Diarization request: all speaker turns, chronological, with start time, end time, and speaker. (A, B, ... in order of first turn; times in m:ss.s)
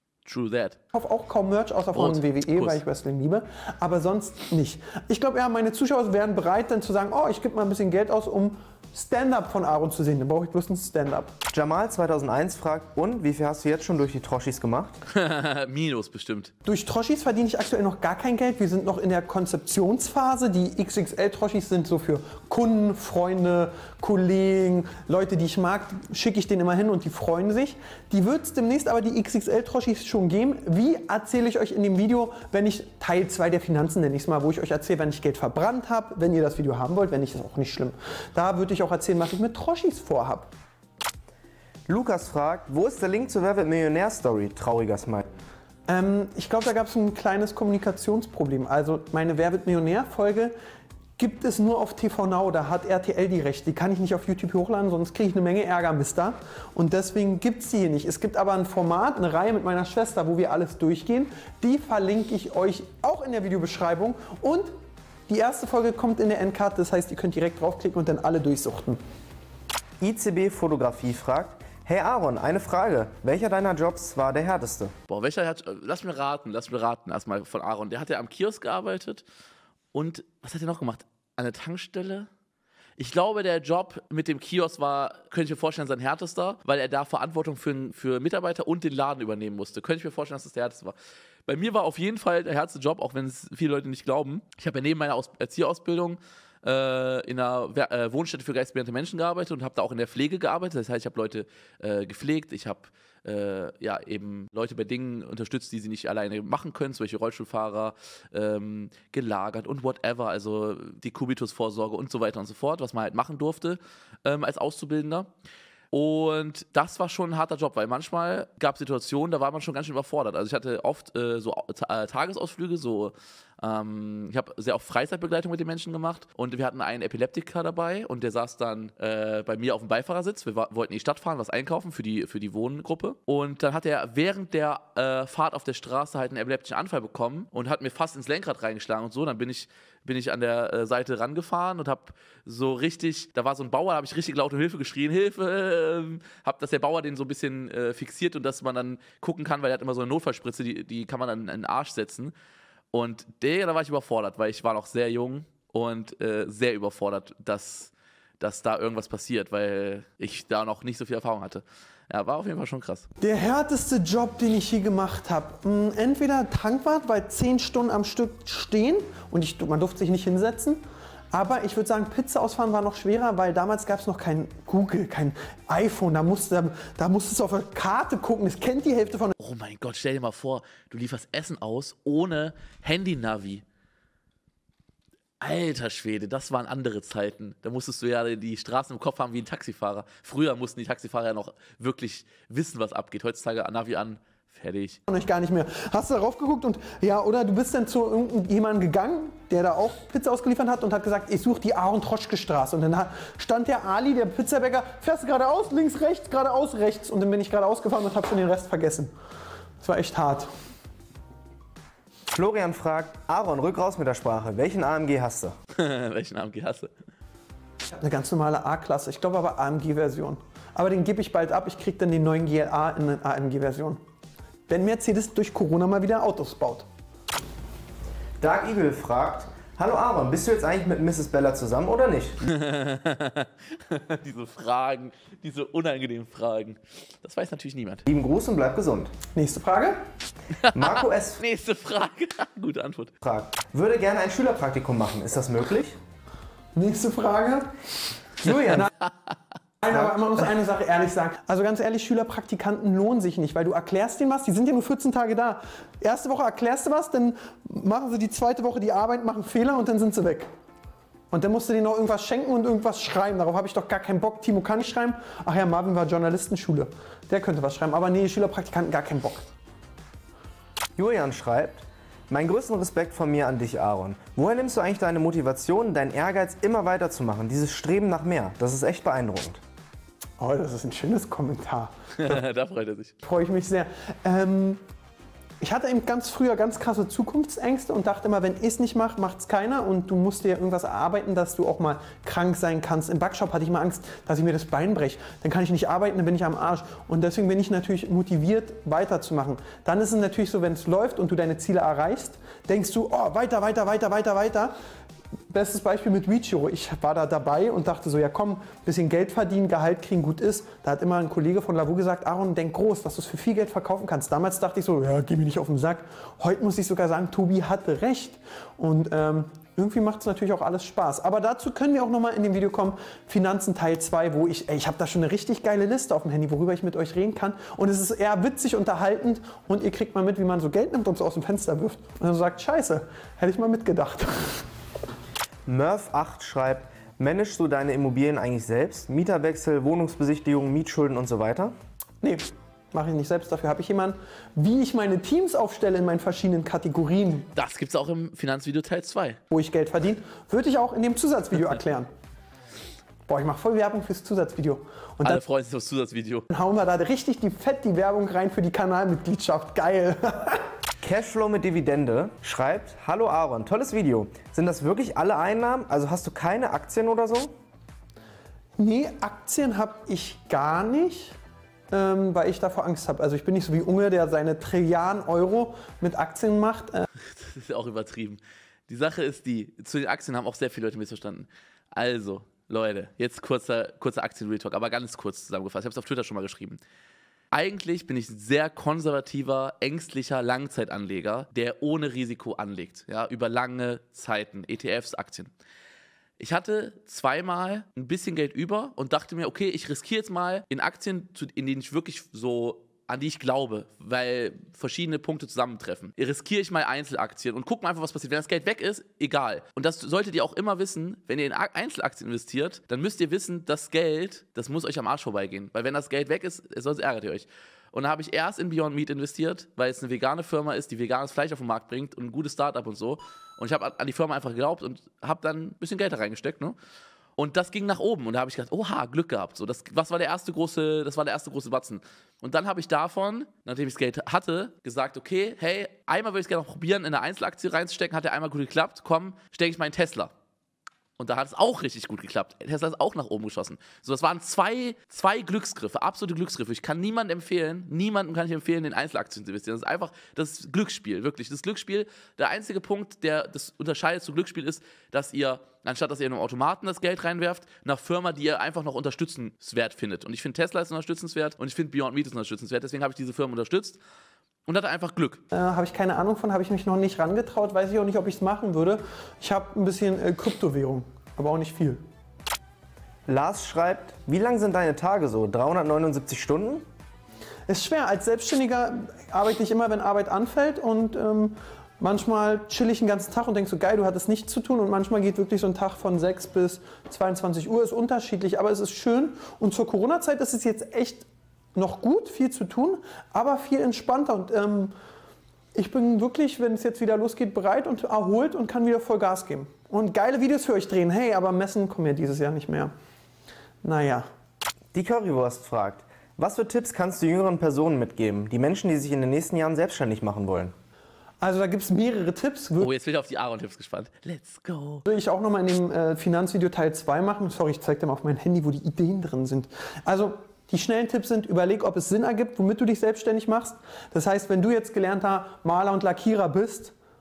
0:00.2-0:00.8 A
0:00.9-0:11.4 B
0:01.9-0:02.8 A
0:11.5-0:15.0 C
0:15.1-0:16.5 A
0:16.6-0:40.5 B
0:41.9-0:45.3 C
0:45.9-0:50.5 B
0:51.2-1:04.7 B
1:05.3-1:09.0 B
1:10.0-1:14.9 C
1:15.1-1:19.2 A
1:19.9-1:22.3 A
1:23.0-1:31.0 A
1:31.5-1:55.3 A
1:55.9-2:32.3 A
2:32.9-2:43.0 A
2:43.2-2:50.8 B
2:51.3-2:59.3 B
2:59.4-3:03.6 A
3:05.4-3:15.0 A
3:15.1-3:29.1 B
3:29.8-3:30.5 B
3:32.3-3:35.6 C
3:35.7-3:36.9 A
3:37.9-3:44.0 B
3:44.7-3:46.9 B
3:48.4-3:52.4 C
3:52.4-3:58.0 A
3:58.1-3:59.1 C
3:59.3-4:00.0 B
4:00.6-4:03.1 A
4:00.7-4:01.4 C
4:03.2-4:06.0 C
4:06.8-4:07.7 B
4:08.6-4:08.9 B
4:09.8-4:20.5 B
4:09.9-4:10.3 C
4:21.3-4:29.5 B
4:31.0-4:39.6 C
4:40.4-4:42.4 B
4:42.2-4:43.1 A
4:43.2-4:44.8 B
4:45.6-5:04.7 B
5:05.5-5:34.7 B
5:35.7-5:41.7 C
5:42.2-5:47.5 B
5:47.5-5:49.4 A
5:49.5-5:52.1 B
5:53.3-5:55.4 B
5:55.2-5:56.5 A
5:56.5-6:00.7 B
6:01.0-6:07.5 C
6:08.8-6:11.4 B
6:11.9-6:17.1 B
6:17.2-6:26.8 A
6:27.5-6:35.5 A
6:36.4-7:06.8 A
7:07.4-7:20.3 A
7:21.2-7:44.0 A
7:44.7-7:45.4 A
7:45.5-7:52.0 B
7:53.3-7:56.8 C
7:57.7-8:14.9 B
8:15.8-8:22.9 B
8:23.8-8:24.3 B
8:24.9-8:30.7 C
8:31.4-8:32.9 B
8:32.8-8:35.0 A
8:35.1-8:46.9 B